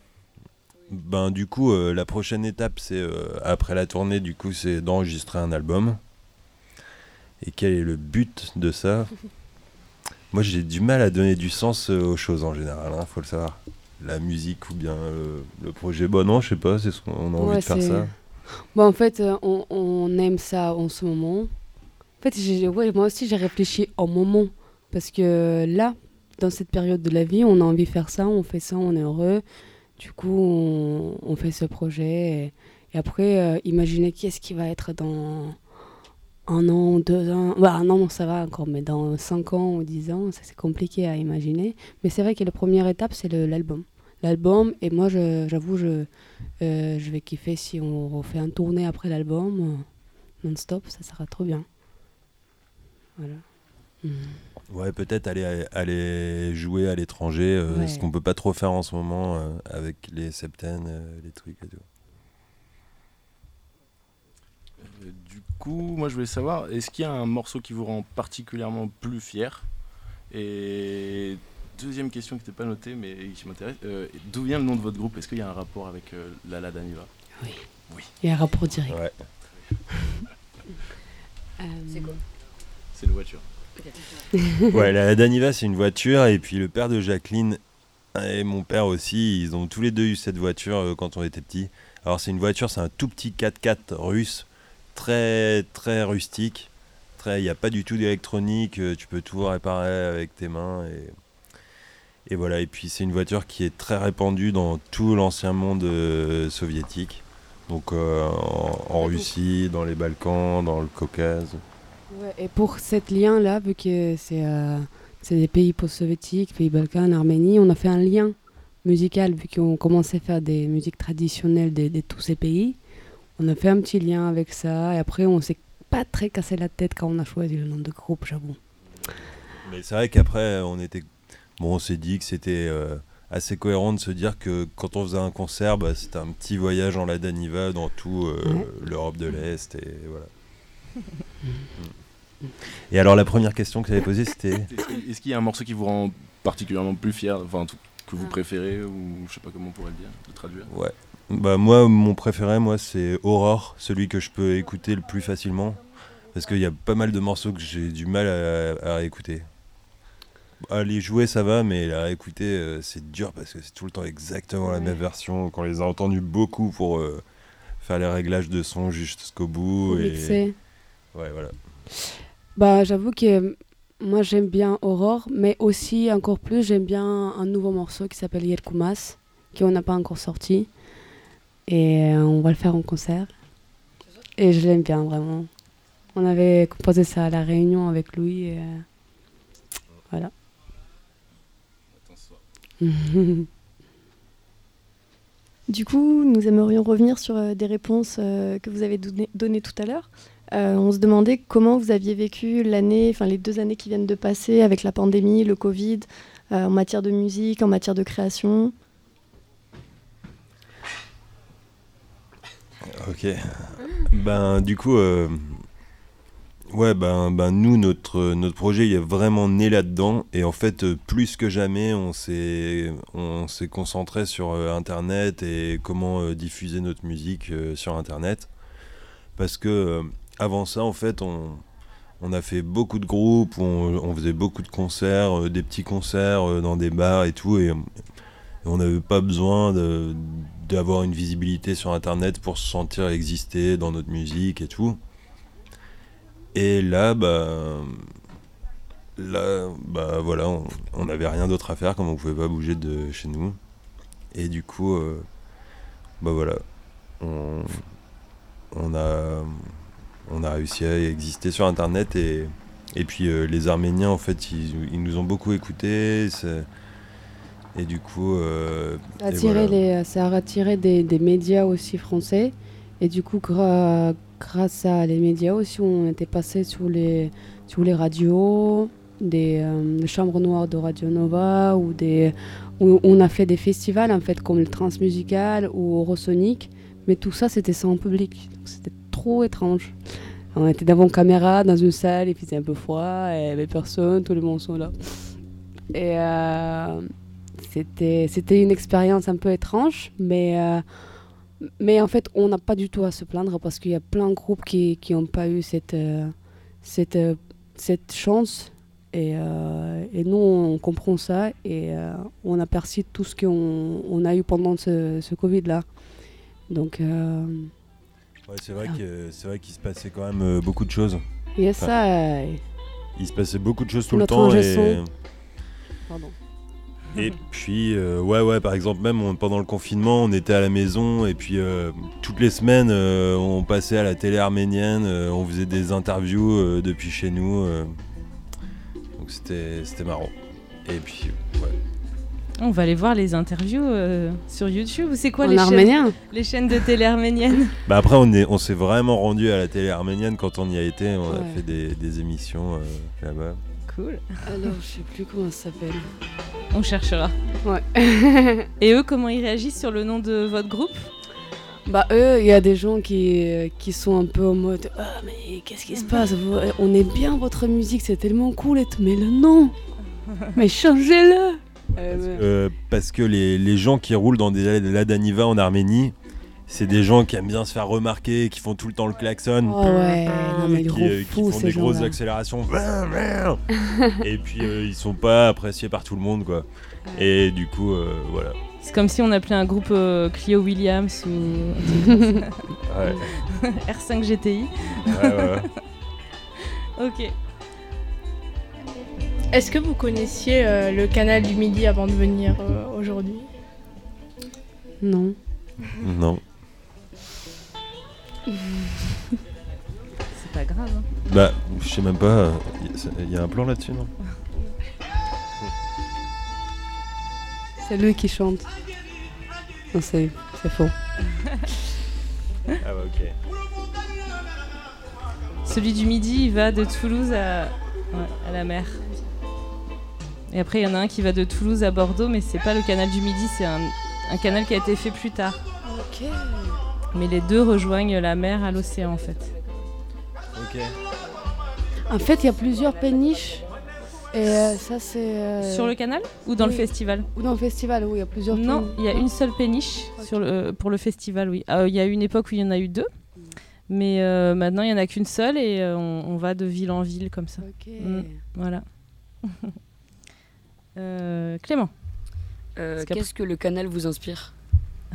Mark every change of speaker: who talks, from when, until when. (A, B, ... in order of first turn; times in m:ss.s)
0:00.9-0:06.0 A
0:07.4-0:09.2 A
0:10.3-0:18.1 A
0:17.4-0:21.5 B
0:22.2-0:29.4 B
0:30.0-0:35.6 B
0:36.5-0:46.1 B
0:46.6-0:49.9 B
0:50.4-0:51.7 B
0:53.2-0:53.4 B
0:54.0-0:54.4 B
0:54.7-1:01.8 A
0:57.7-0:58.1 B
1:04.8-1:09.6 C
1:10.3-1:17.1 C
1:18.2-1:19.0 B
1:18.9-1:19.1 A
1:21.6-1:22.2 B
1:21.9-1:22.2 D
1:22.9-1:23.4 C
1:24.7-1:27.6 A
1:28.1-1:41.1 A
1:42.3-1:51.6 A
1:52.1-2:02.8 B
2:03.4-2:08.6 B
2:09.6-2:11.1 A
2:11.6-2:20.3 A
2:22.9-2:24.7 A
2:24.7-2:30.7 C
2:30.7-2:35.8 A
2:36.3-2:39.5 A
2:40.6-2:47.2 A
2:44.6-2:45.0 B
2:47.8-2:50.4 A
2:49.8-2:50.6 B
2:51.1-2:51.6 A
2:52.5-3:00.7 B
3:01.7-3:03.3 B
3:04.4-3:05.5 B
3:06.1-3:08.8 B
3:11.9-3:12.4 C
3:12.8-3:13.5 B
3:15.7-3:28.7 E
3:32.9-3:35.6 A
3:36.7-3:48.5 A
3:49.4-3:51.6 A
3:52.2-3:57.8 A
3:58.6-4:05.0 A
4:06.5-4:08.0 A
4:09.2-4:13.6 A
4:14.3-4:15.2 A
4:16.2-4:16.6 A
4:17.2-4:17.8 A
4:18.7-4:19.7 A
4:20.2-4:26.7 A
4:27.7-4:29.8 A
4:29.2-4:55.4 B
4:55.9-5:00.8 B
5:01.6-5:15.8 B
5:16.7-5:17.7 B
5:18.5-5:21.2 A
5:21.6-5:22.6 B
5:23.2-5:25.1 A
5:24.1-5:25.0 B
5:26.1-5:26.3 B
5:27.1-5:38.0 A
5:39.2-5:40.3 A
5:40.8-5:41.8 A
5:42.6-5:47.7 F
5:45.4-5:46.2 B
5:47.8-5:53.6 A
5:51.3-5:51.6 B
5:53.8-5:54.4 F
5:54.4-5:56.0 B
5:56.7-5:57.3 F
5:57.6-5:58.7 B
5:58.8-6:01.1 F
6:01.8-6:09.7 B
6:10.5-6:12.5 B
6:12.3-6:16.1 A
6:16.7-6:28.6 A
6:19.6-6:22.1 B
6:28.8-6:32.6 F
6:32.9-6:33.3 A
6:33.4-6:35.6 F
6:35.0-6:35.7 A
6:37.0-6:37.3 F
6:39.5-6:43.5 G
6:45.0-6:45.4 B
6:46.0-6:46.4 A
6:50.3-6:51.1 F
6:51.3-6:54.1 A
6:57.8-6:58.7 B
6:59.9-7:00.9 B
7:02.8-7:03.3 A
7:05.6-7:09.0 F
7:10.5-7:15.6 F
7:15.8-7:16.8 B
7:17.1-7:19.5 F
7:20.6-7:20.9 A
7:22.1-7:23.6 B
7:24.3-7:25.9 B
7:25.6-7:27.3 F
7:26.6-7:29.2 B
7:28.5-7:33.1 F
7:33.9-7:38.8 F
7:37.6-7:38.4 B
7:41.0-7:41.9 F
7:42.8-7:44.5 D
7:43.0-7:43.2 F